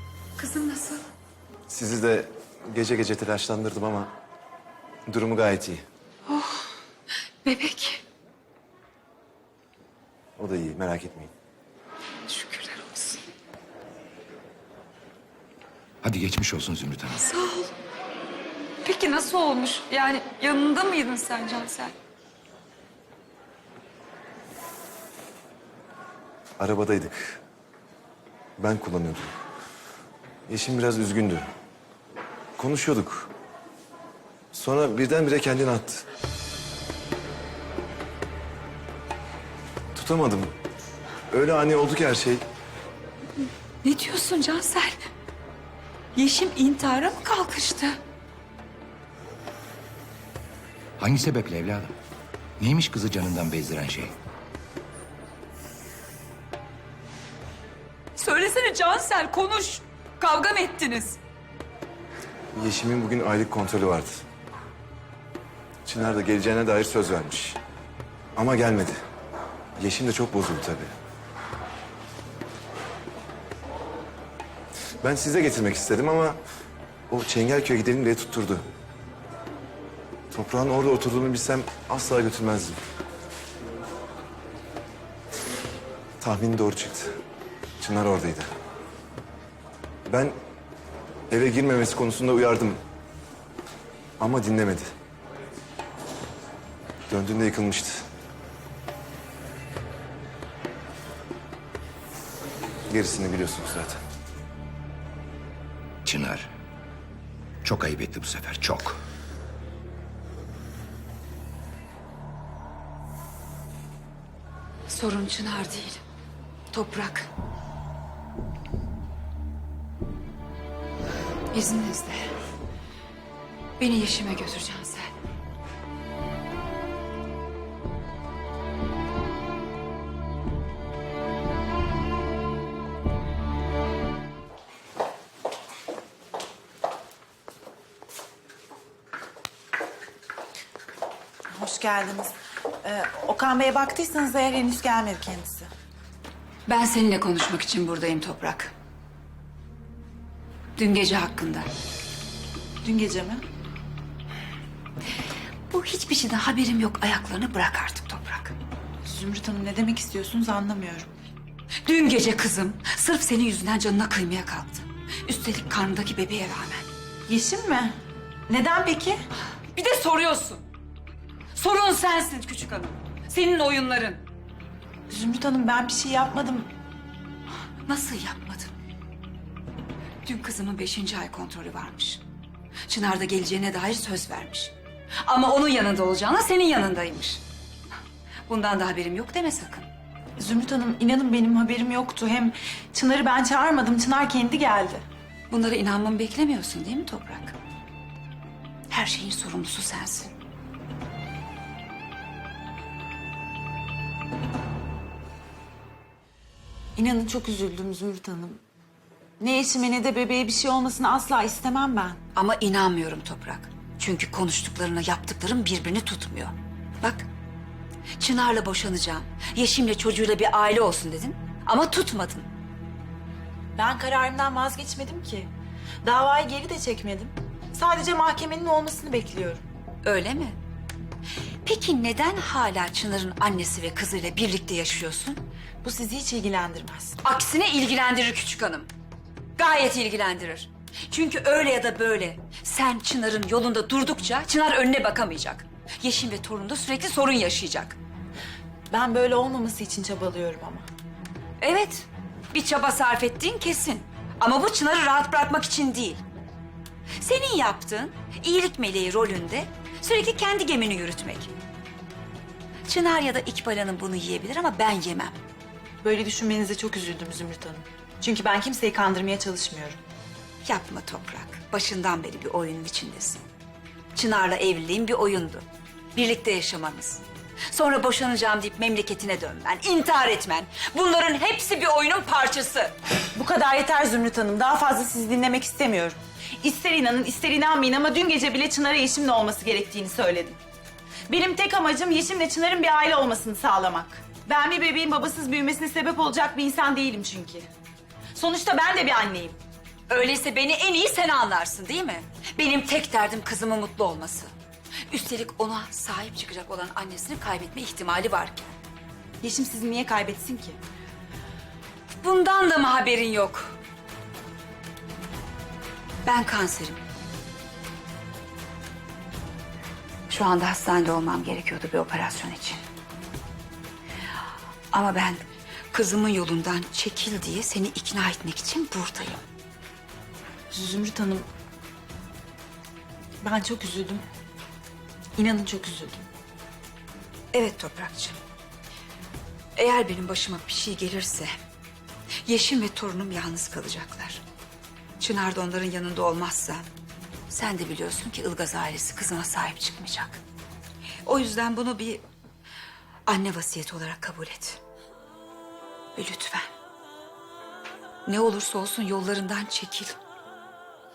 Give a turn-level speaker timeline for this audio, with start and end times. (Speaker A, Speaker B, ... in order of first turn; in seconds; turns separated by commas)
Speaker A: 0.4-1.1, Speaker B: 1.7-4.1, Speaker B: 5.1-5.8, Speaker A: 6.3-6.7, Speaker A: 7.4-8.0, Speaker B: 10.4-11.3, Speaker A: 12.2-13.2, Speaker C: 16.0-17.3, Speaker A: 17.2-17.7, Speaker A: 18.8-21.9, Speaker B: 26.6-27.4, Speaker B: 28.6-29.3, Speaker B: 30.5-31.4, Speaker B: 32.6-33.3, Speaker B: 34.5-36.0, Speaker B: 39.9-40.5, Speaker B: 41.3-42.4, Speaker A: 43.8-45.0, Speaker A: 46.1-48.0, Speaker C: 51.0-51.9, Speaker C: 52.6-54.1, Speaker A: 58.2-61.2, Speaker B: 62.5-64.2, Speaker B: 65.8-67.6, Speaker B: 68.3-69.0, Speaker B: 69.8-70.9, Speaker B: 75.0-76.4, Speaker B: 77.1-78.6, Speaker B: 80.3-82.8, Speaker B: 86.2-87.1, Speaker B: 87.8-88.5, Speaker B: 90.1-90.3, Speaker B: 91.3-92.8, Speaker B: 94.2-94.9, Speaker B: 97.1-98.0, Speaker B: 102.9-104.0, Speaker C: 106.0-106.5, Speaker C: 107.6-109.0, Speaker A: 114.9-116.0, Speaker A: 116.7-117.3, Speaker A: 121.5-122.3, Speaker A: 123.8-125.1, Speaker D: 141.5-145.7, Speaker A: 146.7-148.7, Speaker A: 150.8-151.7, Speaker D: 152.8-153.4, Speaker A: 155.7-158.5, Speaker D: 159.0-161.1, Speaker A: 161.8-166.9, Speaker D: 167.3-168.0, Speaker D: 168.5-169.2, Speaker A: 169.7-170.6, Speaker A: 171.5-174.2, Speaker D: 175.1-176.7, Speaker A: 177.8-178.7, Speaker A: 180.2-182.2, Speaker A: 182.9-187.4, Speaker A: 188.5-189.9, Speaker D: 190.4-195.0, Speaker A: 195.5-197.6, Speaker A: 198.9-200.3, Speaker D: 206.9-208.6, Speaker D: 209.4-212.2, Speaker A: 212.3-217.3, Speaker A: 218.2-222.5, Speaker D: 223.7-225.5, Speaker D: 226.0-229.6, Speaker A: 230.0-230.6, Speaker A: 231.6-235.4, Speaker D: 235.8-237.2, Speaker A: 237.2-238.9, Speaker A: 239.6-248.0, Speaker D: 248.9-250.8, Speaker A: 251.6-256.2, Speaker A: 257.2-261.5, Speaker A: 262.9-265.4, Speaker D: 266.0-270.0, Speaker A: 270.6-273.4, Speaker A: 274.1-282.9, Speaker D: 283.3-290.6, Speaker D: 291.3-297.7, Speaker D: 298.3-299.6, Speaker A: 300.1-304.5, Speaker A: 305.1-308.7, Speaker D: 309.4-310.8, Speaker A: 312.1-313.8, Speaker A: 316.2-317.0, Speaker A: 320.3-322.8, Speaker A: 324.9-329.4, Speaker D: 330.7-331.5, Speaker D: 333.4-334.2, Speaker D: 335.4-336.3, Speaker A: 337.5-338.4, Speaker A: 339.8-341.5, Speaker A: 342.4-344.4, Speaker A: 345.2-346.8, Speaker A: 347.5-350.4, Speaker A: 351.2-352.2, Speaker A: 353.2-354.8, Speaker A: 356.1-356.7, Speaker A: 358.2-360.2